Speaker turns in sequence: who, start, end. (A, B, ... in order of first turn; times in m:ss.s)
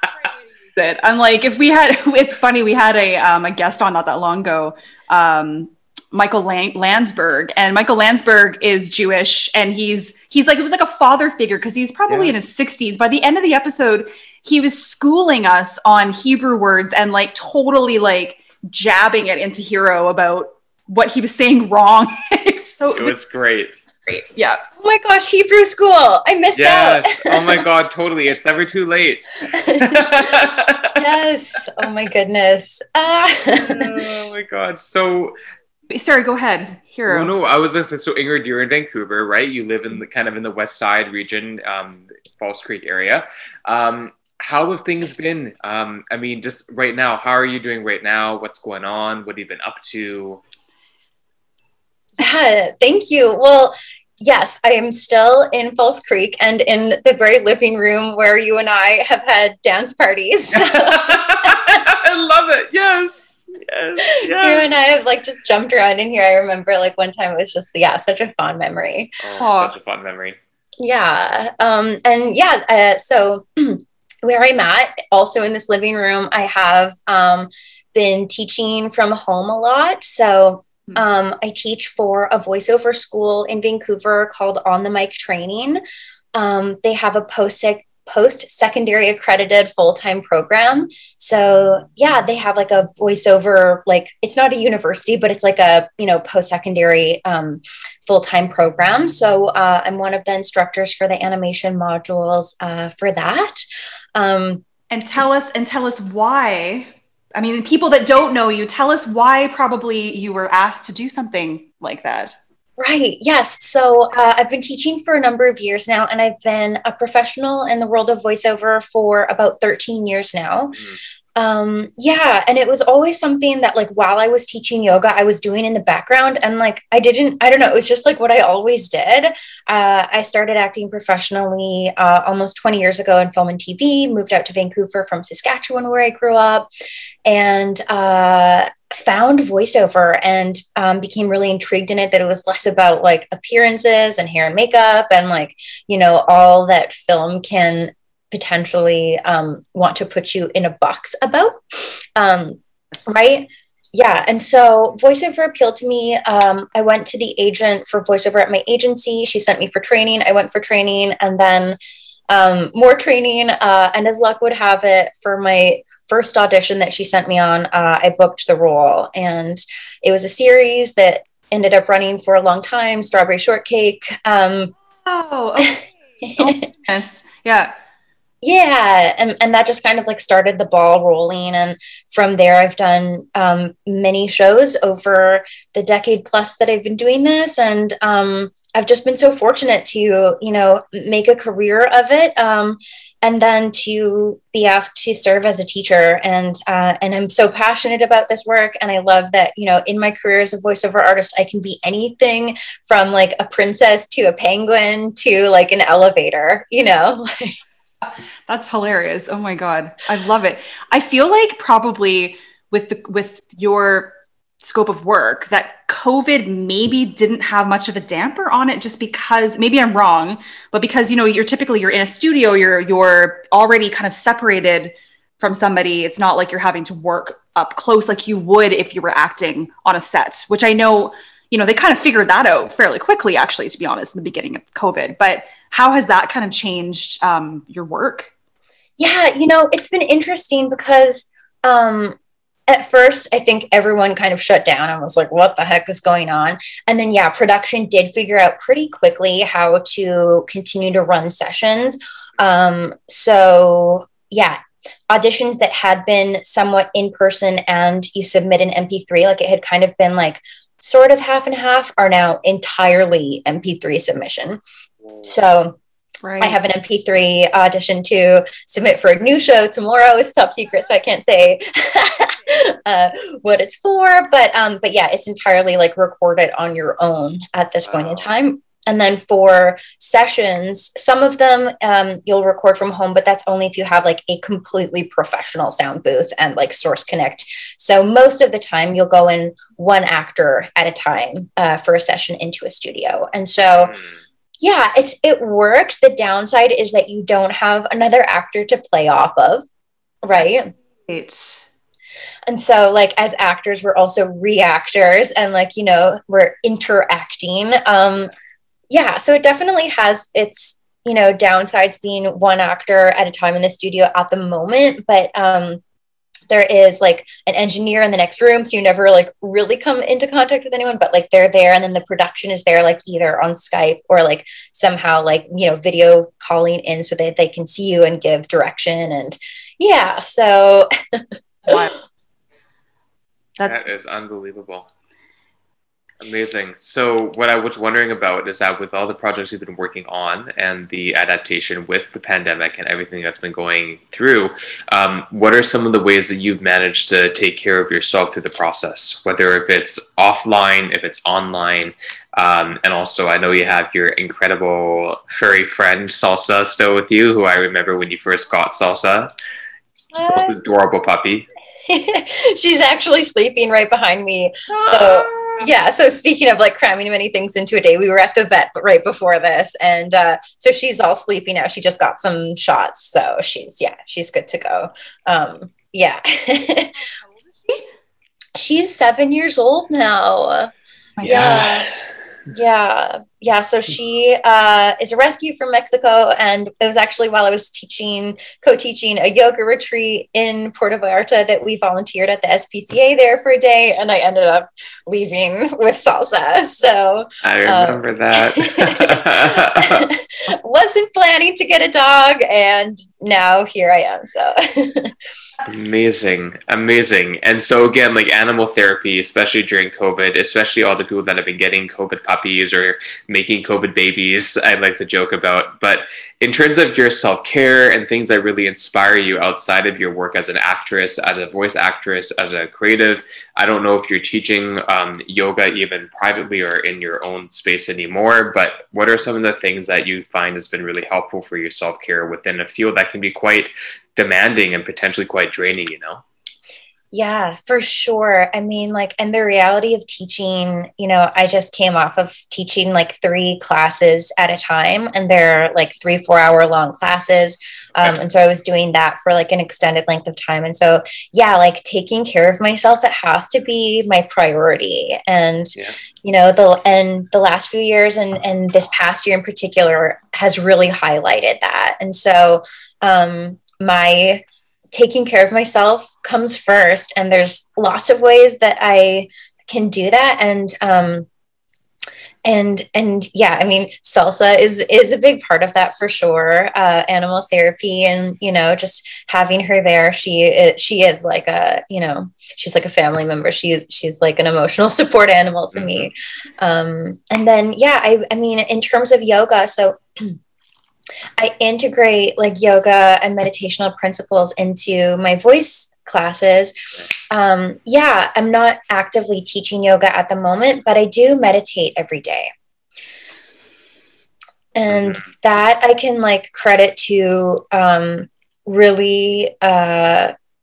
0:00.7-0:23.2 A
0:23.0-0:23.8 B
0:24.1-0:24.6 A
0:24.8-0:27.6 C
0:26.6-0:31.0 B
0:29.5-0:30.3 C
0:31.0-0:34.1 C
0:33.5-0:35.3 B
0:35.9-0:37.3 A
0:37.1-0:50.4 B
0:52.2-1:01.8 C
1:00.6-1:04.7 B
1:04.1-1:09.2 C
1:09.2-1:10.4 B
1:09.4-1:09.7 A
1:10.8-1:25.8 C
1:26.3-1:43.6 C
1:44.1-1:44.6 C
1:44.9-1:52.3 A
1:52.8-2:00.8 C
2:01.4-2:16.7 C
2:17.2-2:41.8 C
2:42.3-2:54.7 C
2:55.0-2:57.7 A
2:55.6-2:56.6 C
2:58.4-3:27.6 C
3:28.5-3:58.3 A
3:59.0-4:02.2 C
4:02.7-4:14.6 C
4:15.1-4:24.6 C
4:25.2-4:25.8 C
4:26.2-4:26.6 A
4:26.4-4:54.0 C
4:37.9-4:38.2 B
4:54.6-4:59.7 C
5:00.2-5:00.7 C
5:01.1-5:01.7 A
5:02.5-5:08.3 C
5:08.9-5:15.8 C
5:16.5-5:31.7 C
5:31.6-5:31.9 A
5:33.6-5:33.8 A
5:33.7-5:34.9 B
5:36.2-5:59.3 B
6:00.1-6:00.6 C
6:00.2-6:01.4 B
6:01.8-6:16.9 C
6:04.8-6:05.6 B
6:18.6-6:20.7 C
6:21.2-6:21.7 A
6:21.2-6:21.9 C
6:21.3-6:21.8 B
6:22.5-6:45.2 C
6:37.4-6:40.1 B
6:45.7-7:16.2 B
7:17.1-7:51.3 C
7:52.4-8:10.4 C
8:05.7-8:06.1 B
8:11.4-8:16.7 C
8:17.3-8:22.5 C
8:24.7-8:30.3 C
8:24.9-8:25.2 B